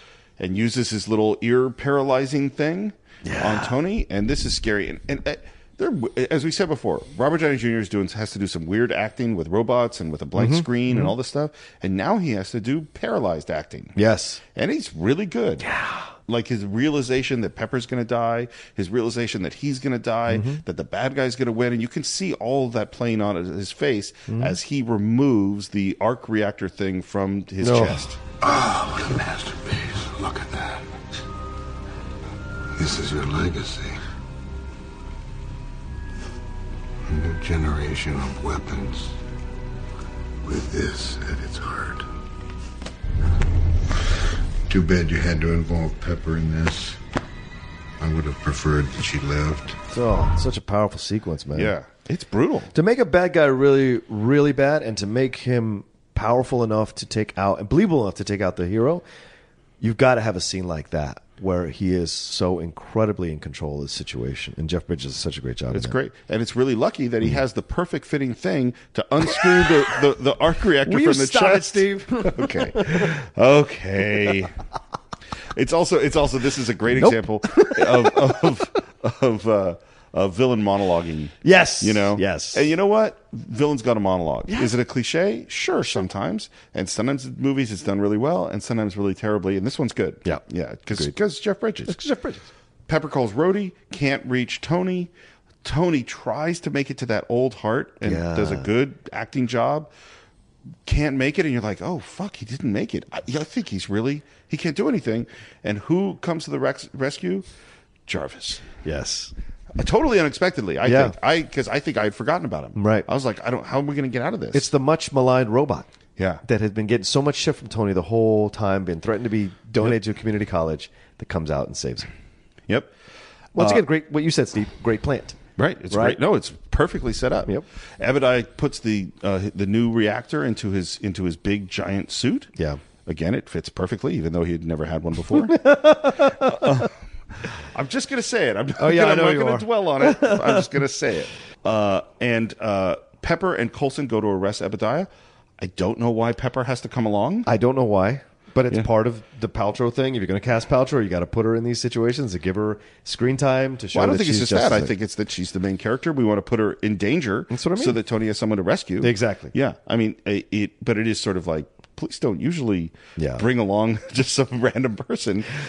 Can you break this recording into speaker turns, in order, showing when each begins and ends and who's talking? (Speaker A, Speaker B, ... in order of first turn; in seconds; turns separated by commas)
Speaker A: 0.4-13.9, Speaker B: 3.2-3.8, Speaker B: 10.4-11.1, Speaker B: 13.9-14.4, Speaker A: 14.5-15.7, Speaker B: 15.6-16.1, Speaker A: 16.3-28.2, Speaker B: 20.3-20.6, Speaker B: 24.3-24.6, Speaker B: 27.6-28.1, Speaker C: 28.4-31.2, Speaker C: 32.8-34.0, Speaker C: 37.1-39.2, Speaker C: 40.4-42.0, Speaker C: 44.7-47.0, Speaker C: 48.0-49.8, Speaker B: 49.9-51.7, Speaker A: 51.5-52.7, Speaker B: 52.7-59.0, Speaker B: 59.8-66.0, Speaker A: 65.7-74.6, Speaker B: 70.8-73.1, Speaker A: 75.5-92.0, Speaker B: 77.0-78.5, Speaker B: 81.4-82.7, Speaker B: 84.5-84.7, Speaker B: 91.9-92.5, Speaker A: 92.9-95.1, Speaker A: 95.6-99.9, Speaker B: 98.0-98.7, Speaker A: 100.9-107.5, Speaker A: 108.1-108.7, Speaker B: 108.8-109.3, Speaker A: 109.8-114.7, Speaker B: 110.8-111.2, Speaker B: 112.8-113.1, Speaker B: 114.5-115.9, Speaker A: 116.2-116.4, Speaker B: 116.4-122.1, Speaker B: 123.5-125.4, Speaker A: 123.6-123.8, Speaker A: 125.6-132.5, Speaker B: 125.9-126.2, Speaker A: 133.1-136.9, Speaker B: 135.3-136.8, Speaker A: 137.4-147.5, Speaker B: 138.8-140.7, Speaker B: 147.5-154.9, Speaker A: 153.9-165.5, Speaker B: 157.5-158.0, Speaker B: 159.0-159.5, Speaker B: 163.2-163.4